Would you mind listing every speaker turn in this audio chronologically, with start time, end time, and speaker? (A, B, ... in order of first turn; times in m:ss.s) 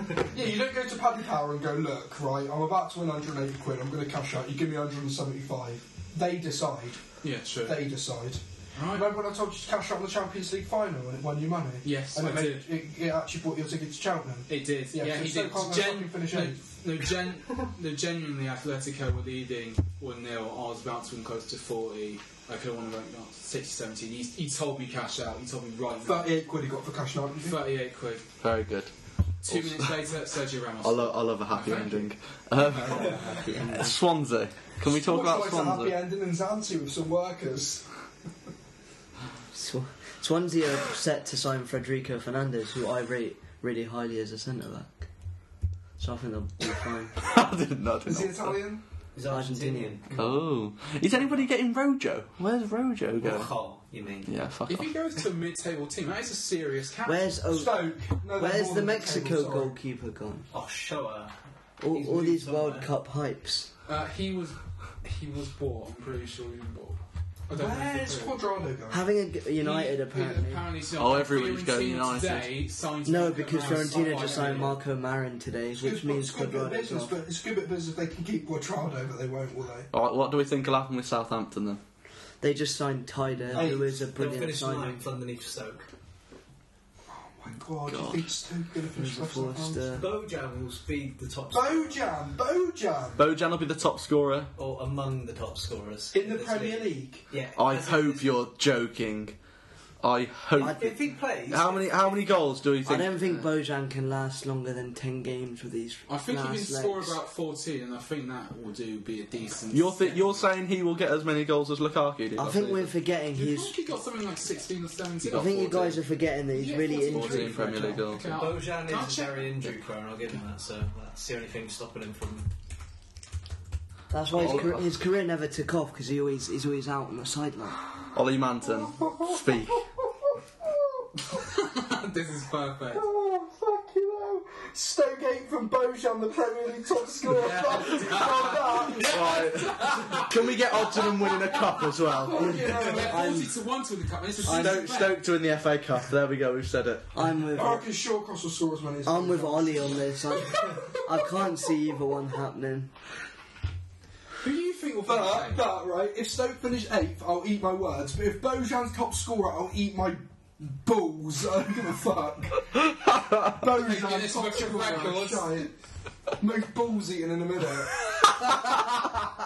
0:00.3-0:16.6 A
0:07.2-0:07.8 B
0:08.8-0:09.1 B
0:11.8-0:12.7 B
0:14.5-0:26.4 B
0:26.0-0:27.6 A
0:27.4-0:28.3 B
0:28.4-0:28.9 C
0:29.4-0:32.1 B
0:29.4-0:30.0 C
0:30.8-0:36.0 C
0:32.8-0:33.4 B
0:32.9-0:33.2 A
0:33.3-0:34.0 D
0:34.8-0:37.9 A
0:39.5-0:45.1 D
0:46.0-0:47.2 D
0:47.2-0:48.6 C
0:48.0-0:48.8 A
0:49.1-0:50.3 E
0:49.3-0:50.0 D
0:50.2-0:53.5 C
0:51.1-0:51.4 E
0:53.2-0:54.3 E
0:54.2-0:54.9 C
0:54.7-0:57.4 B
0:57.0-1:00.5 D
0:57.5-0:59.7 A
1:00.5-1:01.3 E
1:01.8-1:03.7 D
1:01.9-1:02.9 E
1:03.9-1:08.4 B
1:07.5-1:09.1 A
1:08.9-1:10.6 D
1:09.6-1:14.8 B
1:10.9-1:12.5 C
1:13.0-1:17.2 D
1:13.7-1:14.7 E
1:15.8-1:19.9 A
1:19.9-1:21.8 C
1:22.4-1:25.0 D
1:23.5-1:25.9 E
1:23.5-1:23.9 A
1:27.1-1:30.0 A
1:27.9-1:28.3 C
1:29.0-1:30.1 D
1:30.0-1:32.0 E
1:31.5-1:33.2 A
1:33.2-1:34.5 C
1:34.6-1:38.4 E
1:36.1-1:37.3 A
1:37.6-1:39.4 C
1:40.0-1:43.4 C
1:40.6-1:42.2 E
1:42.8-1:47.2 D
1:46.1-1:50.4 B
1:49.7-1:52.9 C
1:52.4-1:53.8 D
1:53.3-1:55.6 B
1:55.2-1:56.0 C
1:55.3-1:58.0 D
1:56.5-1:59.5 B
1:57.0-1:58.3 C
1:58.3-2:02.5 E
2:04.1-2:07.8 D
2:04.3-2:04.9 C
2:08.1-2:09.9 C
2:08.6-2:11.3 A
2:11.3-2:13.1 B
2:12.9-2:19.5 A
2:17.3-2:21.4 B
2:19.0-2:22.6 C
2:22.1-2:23.4 A
2:22.4-2:25.2 B
2:22.4-2:23.5 D
2:24.4-2:25.1 D
2:24.4-2:27.2 C
2:27.1-2:27.9 D
2:27.5-2:30.4 A
2:29.0-2:32.9 D
2:34.4-2:35.7 B
2:35.0-2:45.7 A
2:42.8-2:43.6 C
2:43.8-2:45.7 B
2:46.4-2:48.1 A